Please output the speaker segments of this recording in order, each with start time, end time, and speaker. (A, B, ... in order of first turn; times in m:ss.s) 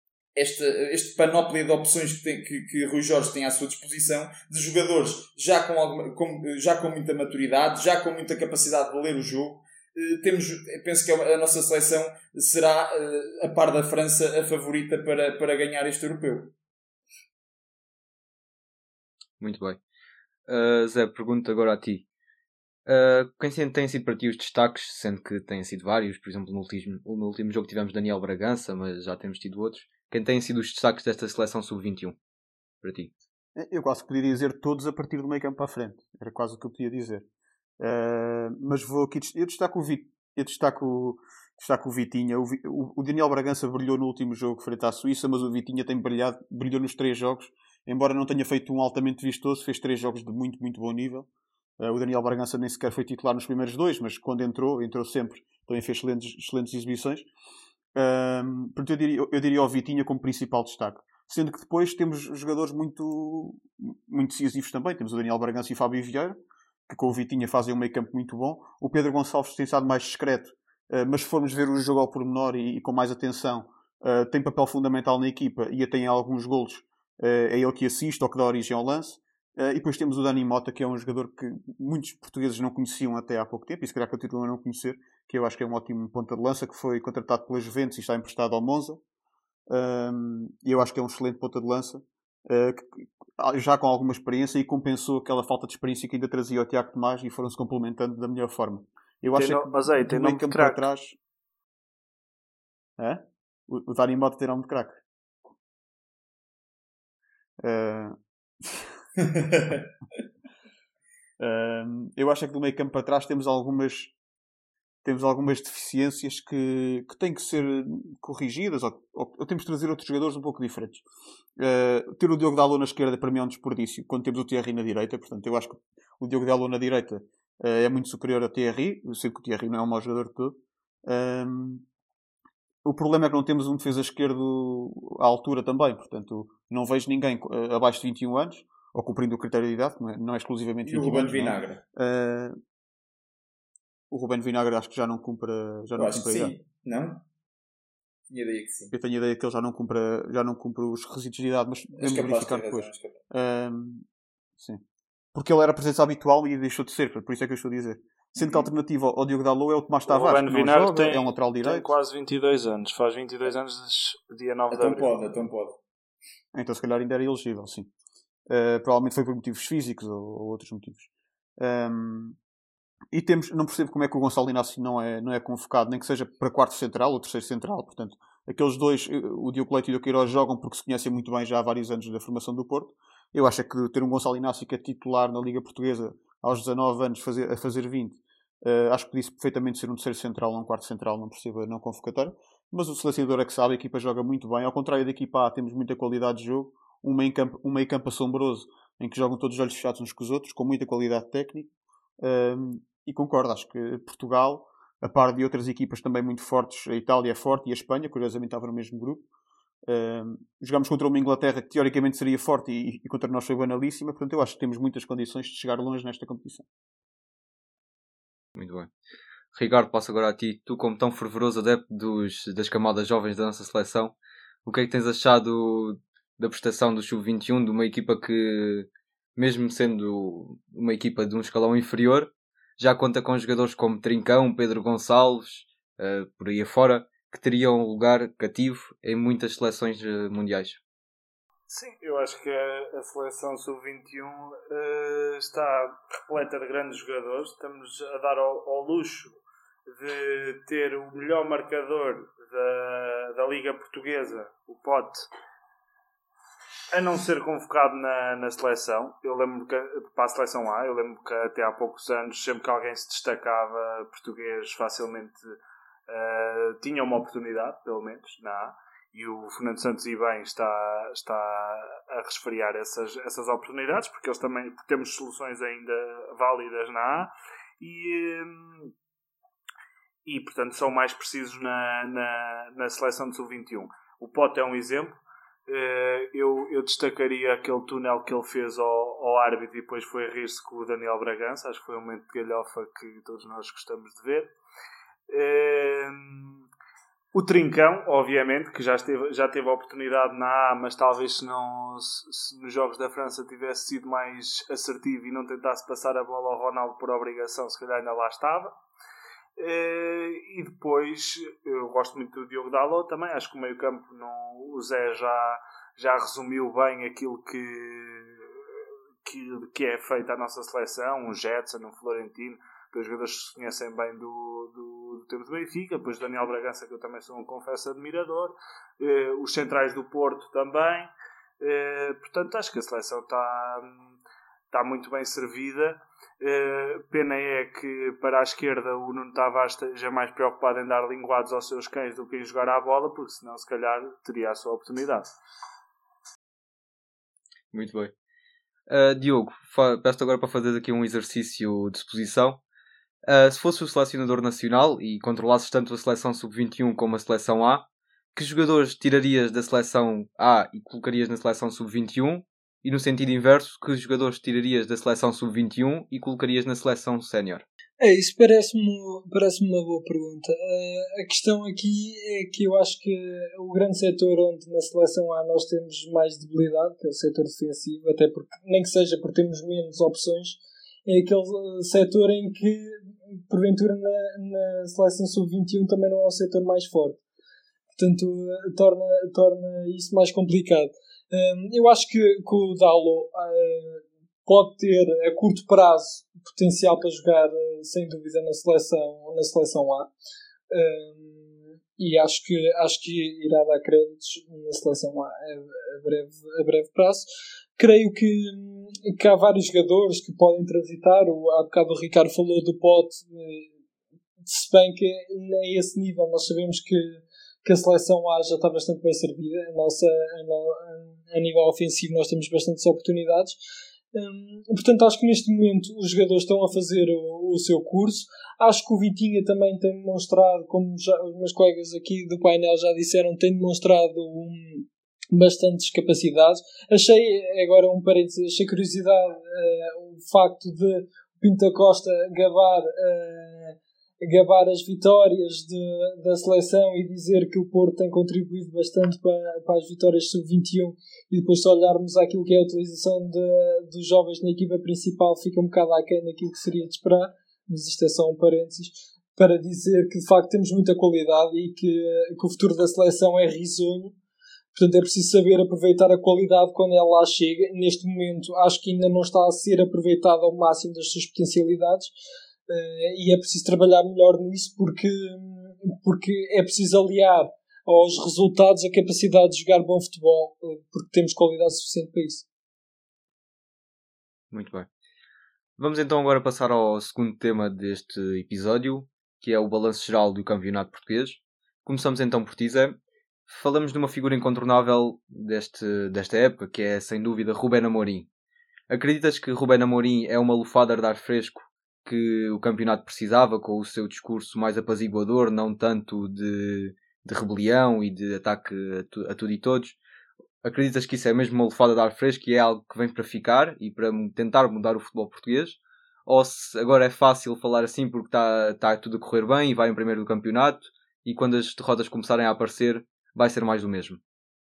0:00.4-0:16.5 A
0:19.4-0:19.8 B
0:20.5-0:22.0 B
0:22.9-0:32.2 B
0:32.8-0:33.1 B
0:33.6-0:37.3 C
0:37.8-0:51.3 C
0:51.8-0:57.3 C
0:58.0-1:06.4 C
1:06.9-1:29.0 C
1:29.7-1:41.2 C
1:39.3-1:40.9 D
1:43.0-1:45.0 C
1:47.6-1:48.9 C
1:49.3-1:49.8 A
1:51.4-1:54.1 C
1:55.0-2:01.0 C
2:01.6-2:11.8 C
2:12.8-2:22.6 C
2:20.8-2:21.8 A
2:24.1-2:26.5 C
2:26.0-2:27.2 A
2:28.3-2:28.9 A
2:28.9-2:34.0 C
2:32.0-2:33.2 A
2:35.3-2:41.9 C
2:38.4-2:38.7 A
2:40.1-2:45.1 D
2:44.7-2:45.8 A
2:46.5-2:47.9 C
2:48.5-2:52.4 C
2:53.1-3:29.3 C
3:29.9-3:36.7 C
3:38.6-3:38.9 B
3:39.5-4:00.8 B
4:01.7-4:09.3 D
4:09.9-4:15.3 D
4:16.9-4:25.4 D
4:26.1-4:38.9 D
4:40.2-4:54.5 D
4:55.3-4:56.6 D
4:57.3-5:08.8 D
5:09.6-5:18.5 D
5:19.2-5:34.2 D
5:34.7-5:45.3 D
5:47.7-5:48.1 B
5:48.9-5:52.6 B
5:53.3-6:07.6 B
6:08.0-6:27.2 E
6:28.0-6:40.1 E
6:40.7-6:47.3 E
6:47.8-6:53.7 E
6:54.5-7:03.6 E
7:04.1-7:44.2 E
7:44.8-7:52.1 E
7:52.7-8:02.4 E
8:04.5-8:04.9 B
8:05.8-8:18.3 B
8:18.9-8:30.0 B
8:30.6-8:44.2 B